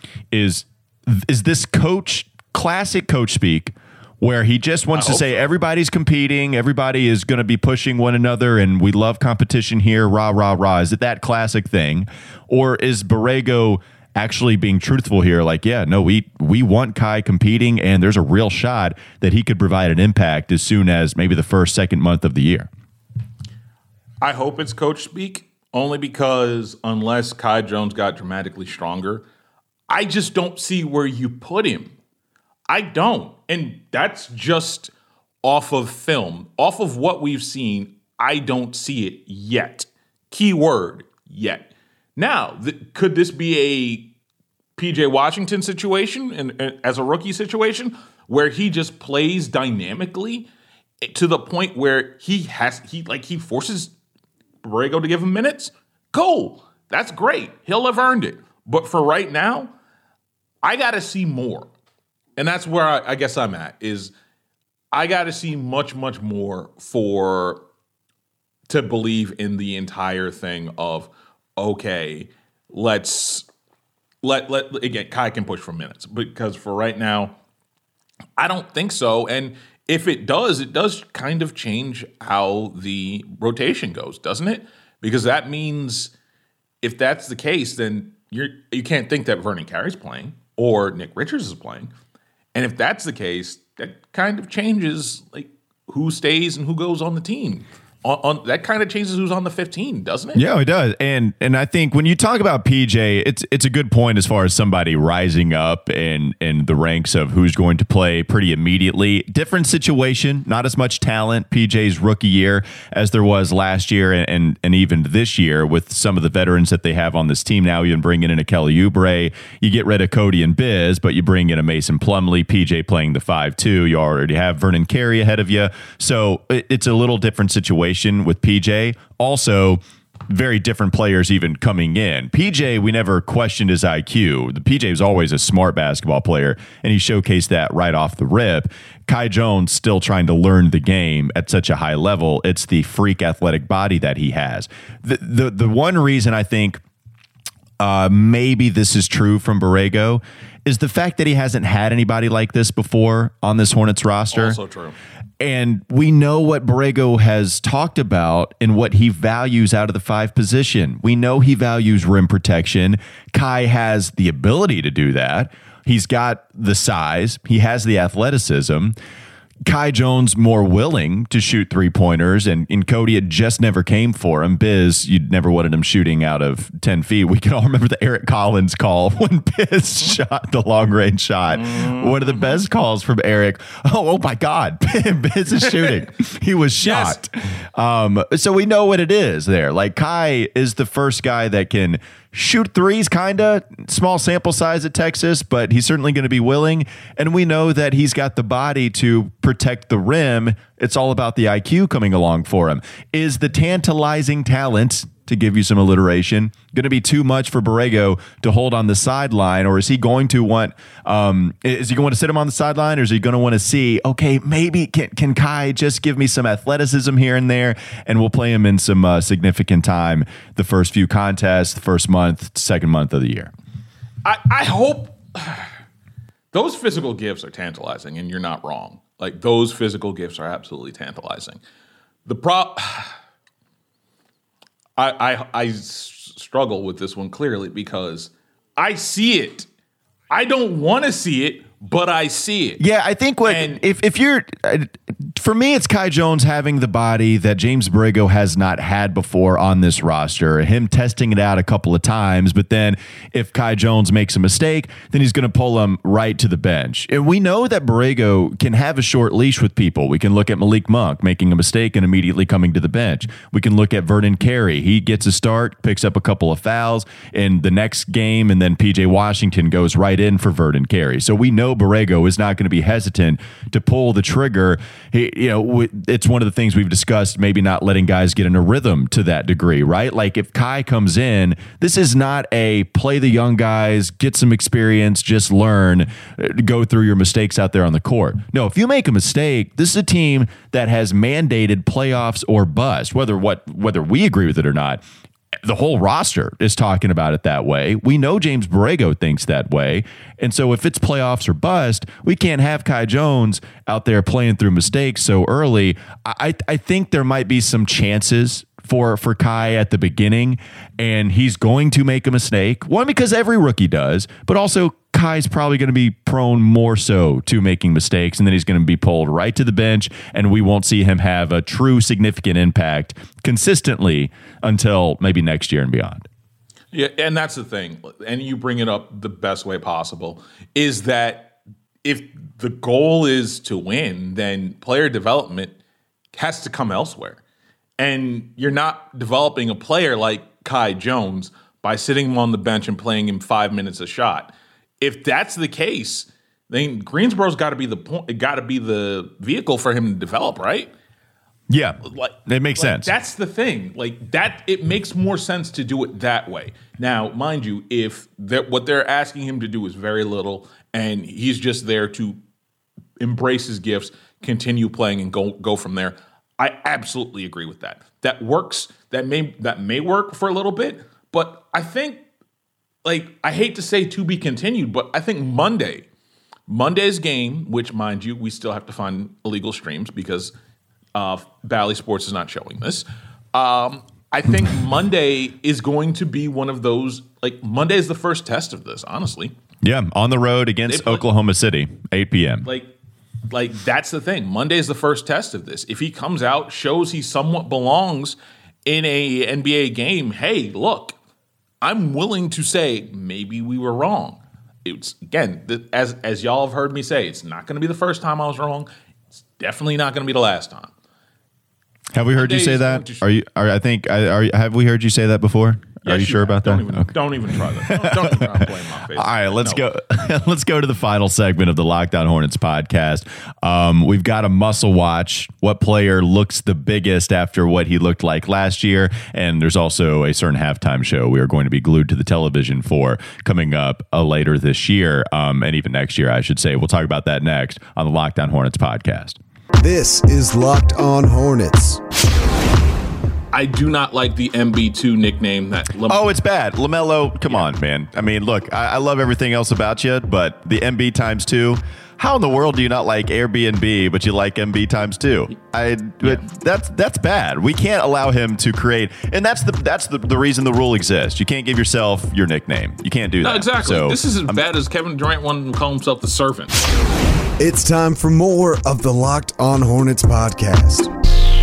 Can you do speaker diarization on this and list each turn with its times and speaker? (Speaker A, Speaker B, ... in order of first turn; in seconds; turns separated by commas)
Speaker A: 0.3-22.7, Speaker B: 4.9-5.4, Speaker B: 24.2-29.2, Speaker B: 29.9-31.9, Speaker B: 32.7-34.9, Speaker B: 35.4-44.1, Speaker B: 44.8-50.5, Speaker B: 51.0-53.9, Speaker B: 54.6-59.7, Speaker B: 60.6-61.7, Speaker B: 62.4-64.1, Speaker B: 64.9-67.6, Speaker B: 68.7-73.5, Speaker B: 74.2-77.3, Speaker B: 78.4-86.1, Speaker B: 86.8-91.9, Speaker B: 92.5-100.4, Speaker A: 100.3-146.8, Speaker A: 147.8-154.6, Speaker B: 154.3-154.9, Speaker A: 155.4-168.9, Speaker A: 169.7-223.5, Speaker B: 181.5-182.5, Speaker B: 186.8-187.2, Speaker B: 224.2-225.7, Speaker B: 226.5-231.6, Speaker B: 232.2-233.2, Speaker B: 235.0-239.7, Speaker B: 240.3-242.8, Speaker A: 242.8-295.0, Speaker B: 243.4-243.8, Speaker A: 295.6-326.2, Speaker B: 326.9-335.8, Speaker B: 336.3-337.4, Speaker B: 338.0-350.9, Speaker A: 351.7-353.1, Speaker B: 352.0-362.4, Speaker B: 363.2-372.2, Speaker B: 373.0-376.1, Speaker B: 376.7-380.5, Speaker B: 381.1-389.5, Speaker A: 389.8-392.7, Speaker B: 390.9-391.2, Speaker B: 392.6-392.9, Speaker B: 393.5-401.1, Speaker B: 401.8-408.9, Speaker B: 409.6-410.9, Speaker A: 412.1-439.4, Speaker B: 412.3-413.2, Speaker B: 416.0-419.9, Speaker C: 439.8-442.0, Speaker B: 443.5-446.3, Speaker A: 446.1-464.6, Speaker B: 463.4-466.8, Speaker C: 467.6-471.1